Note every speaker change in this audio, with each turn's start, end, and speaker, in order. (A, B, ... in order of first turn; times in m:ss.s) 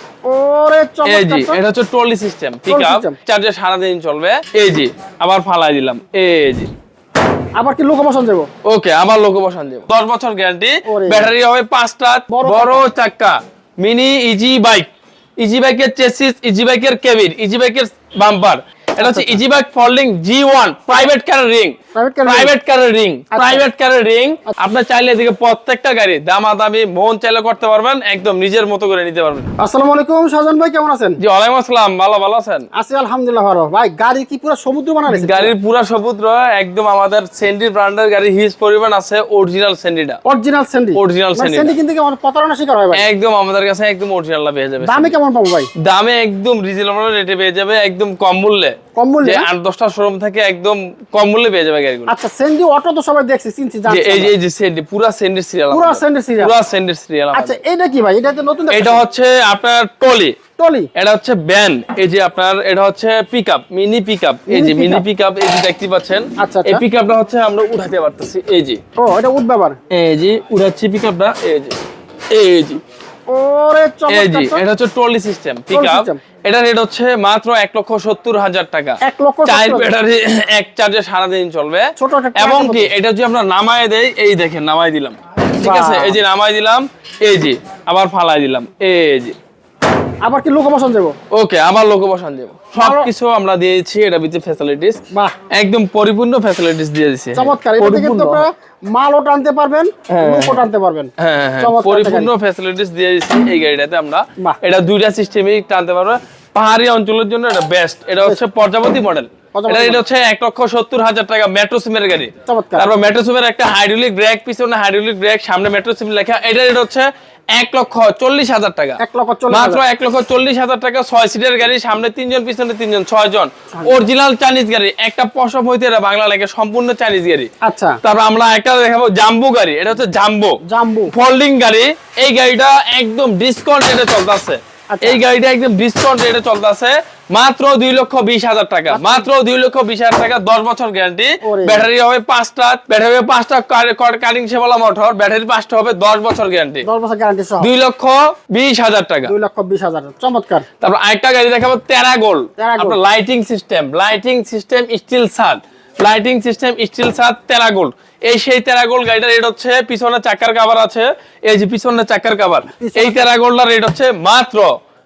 0:00.2-0:01.6 A
0:01.0-0:06.7 B
0:02.7-0:03.2 A
0:07.6-0:08.5 A
0:08.6-0:29.5 B
0:10.8-0:11.3 A
0:12.3-0:12.8 A
0:19.0-0:19.4 A
0:21.9-0:22.5 A
0:23.3-0:23.6 A
0:29.6-0:31.2 A
0:31.2-0:32.7 B
0:32.7-0:35.5 A
0:35.1-0:40.2 B
0:40.2-0:43.0 A
0:41.0-0:41.7 B
0:42.9-0:45.1 B
0:44.8-0:45.7 A
0:45.8-0:52.1 B
0:48.9-0:49.5 A
0:52.1-0:54.3 A
0:53.9-0:57.6 B
0:55.7-0:56.5 A
0:57.3-0:59.0 A
0:58.7-1:00.4 B
1:00.6-1:00.9 A
1:00.9-1:08.8 B
1:04.5-1:05.0 A
1:06.4-1:06.8 A
1:09.0-1:09.8 A
1:09.9-1:11.8 B
1:12.3-1:12.8 B
1:13.3-1:14.6 A
1:14.1-1:29.3 B
1:15.7-1:16.2 A
1:19.0-1:19.9 A
1:22.0-1:22.9 A
1:25.6-1:26.2 A
1:30.2-1:31.1 A
1:31.3-1:35.0 B
1:32.8-1:33.1 A
1:35.5-1:38.4 B
1:37.3-1:42.3 A
1:40.1-1:40.6 B
1:41.2-2:07.5 B
1:49.5-1:50.0 A
1:52.5-1:52.9 A
1:59.0-1:59.8 A
2:07.6-2:08.0 A
2:08.0-2:10.6 B
2:10.6-2:11.1 A
2:11.1-2:26.9 B
2:14.9-2:15.2 A
2:18.9-2:19.3 A
2:21.4-2:21.9 A
2:26.8-2:27.7 A
2:27.6-2:29.3 B
2:29.3-2:30.6 A
2:30.8-2:44.7 B
2:32.6-2:33.0 A
2:42.8-2:43.2 A